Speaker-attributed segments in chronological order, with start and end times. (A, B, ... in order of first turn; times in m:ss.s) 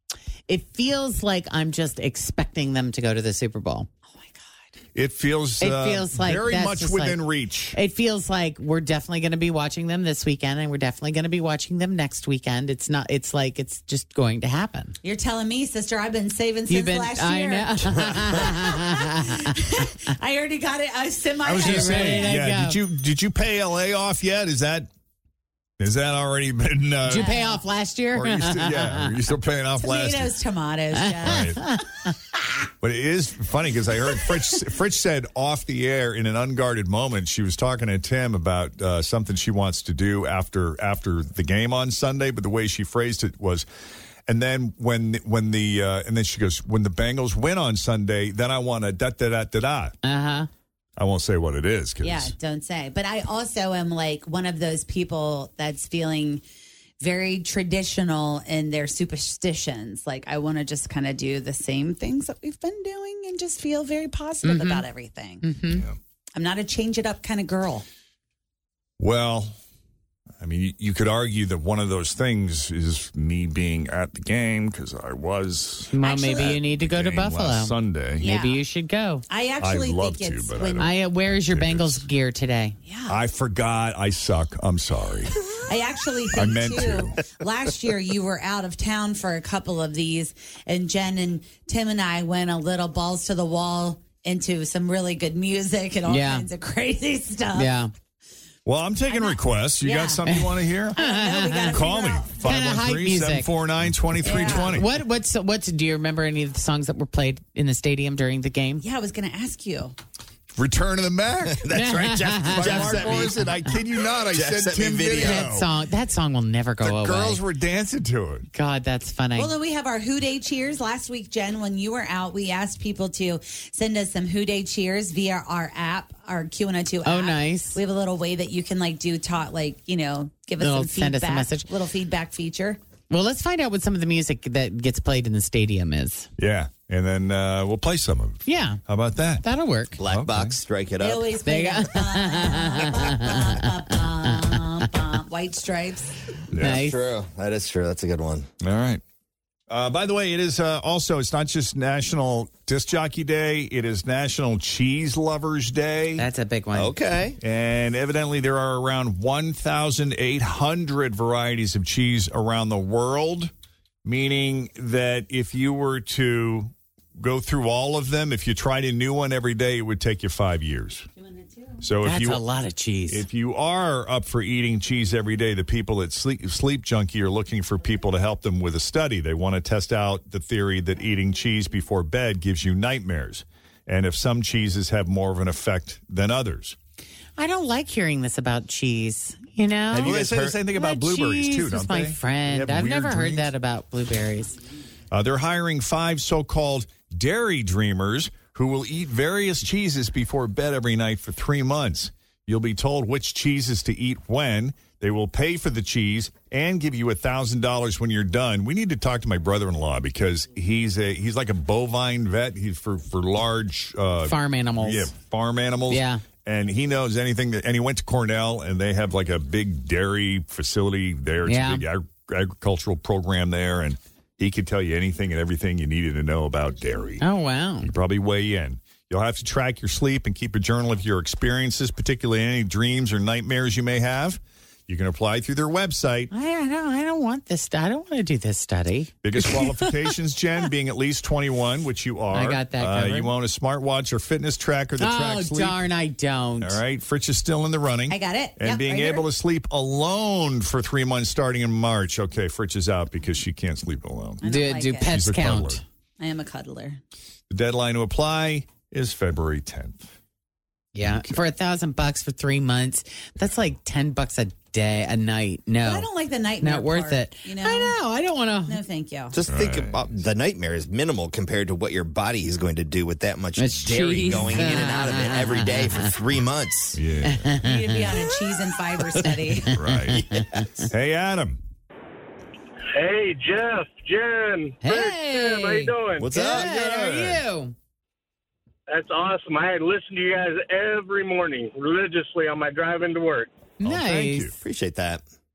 0:00.5-0:03.9 A
0:04.1-0:04.4 B
0:05.0-0:07.8 C
0:05.6-0:07.2 A
0:07.7-0:15.0 A
0:15.0-0:22.4 B
0:16.7-0:19.6 A
0:21.4-0:24.9 C
0:21.5-0:22.8 A
0:25.8-0:27.3 C
0:27.1-0:29.2 A
0:27.1-0:27.6 B
0:28.1-0:30.3 C
0:29.8-0:31.8 B
0:31.2-0:31.6 C
0:31.3-0:31.8 A
0:32.8-0:43.7 C
0:44.3-0:49.9 C
0:50.0-0:50.5 A
0:51.0-0:52.4 C
0:52.0-0:56.4 B
0:57.0-1:05.4 B
1:04.4-1:04.8 A
1:05.4-1:05.9 A
1:05.7-1:06.0 C
1:06.4-1:07.9 B
1:09.0-1:09.6 C
1:10.4-1:18.3 C
1:15.9-1:19.2 A
1:16.0-1:16.6 B
1:18.2-1:18.6 B
1:19.3-1:20.9 B
1:19.6-1:22.1 C
1:20.8-1:22.8 A
1:22.9-1:23.2 B
1:23.1-1:25.4 C
1:25.6-1:37.8 B
1:26.3-1:27.2 C
1:36.1-1:36.5 A
1:37.5-1:37.9 A
1:38.7-1:41.0 C
1:39.1-1:40.3 B
1:40.3-1:41.8 A
1:40.9-1:42.4 B
1:41.7-1:44.9 C
1:42.4-1:43.5 A
1:44.2-1:44.8 B
1:44.3-1:48.8 A
1:48.8-1:50.0 B
1:50.5-1:55.7 C
1:51.5-1:53.4 D
1:51.7-1:53.2 A
1:54.3-1:55.5 D
1:55.2-1:57.4 A
1:56.8-1:58.5 C
1:58.5-1:59.5 A
1:59.4-2:12.8 B
2:07.0-2:07.8 A
2:10.6-2:11.7 A
2:13.1-2:16.3 A
2:16.4-2:19.5 C
2:18.5-2:18.8 A
2:19.4-2:20.0 A
2:20.0-2:21.3 D
2:20.0-2:20.6 C
2:21.0-2:26.1 B
2:21.4-2:23.7 A
2:24.3-2:24.6 A
2:26.5-2:26.9 C
2:26.5-2:27.0 A
2:26.6-2:28.5 D
2:28.6-2:29.0 C
2:29.7-2:36.3 C
2:36.2-2:37.0 A
2:36.7-2:37.4 D
2:37.4-2:43.5 C
2:44.0-2:51.1 C
2:51.2-2:51.8 B
2:51.8-2:52.4 C
2:52.0-2:53.3 A
2:53.1-3:06.8 C
3:07.4-3:14.6 A
3:09.9-3:13.5 C
3:10.0-3:10.6 D
3:15.1-3:47.2 C
3:34.3-3:35.1 A
3:35.9-3:36.2 A
3:41.5-3:41.8 A
3:47.2-3:47.9 A
3:47.8-3:56.3 C
3:56.3-4:00.0 A
3:59.2-4:05.8 C
4:02.3-4:03.3 A
4:05.0-4:06.8 A
4:06.6-4:14.4 C
4:08.1-4:09.2 B
4:14.4-4:15.1 B
4:14.4-4:15.8 A
4:15.0-4:15.8 C
4:16.2-4:17.0 B
4:17.5-4:20.1 C
4:21.0-4:26.1 A
4:21.0-4:21.3 C
4:25.8-4:28.0 B
4:26.6-4:28.8 A
4:28.7-4:29.4 B
4:29.3-4:37.0 D
4:29.4-4:30.2 C
4:33.6-4:36.1 A
4:37.0-4:37.5 C
4:37.2-4:38.4 A
4:37.6-4:39.8 B
4:39.2-4:40.9 A
4:39.7-4:41.6 C
4:40.5-4:40.9 D
4:43.0-4:46.3 E
4:44.8-4:47.7 A
4:46.2-4:47.4 D
4:46.6-4:47.4 C
4:48.9-4:53.5 E
4:53.8-4:54.6 A
4:53.8-4:54.5 C
4:54.6-4:55.2 D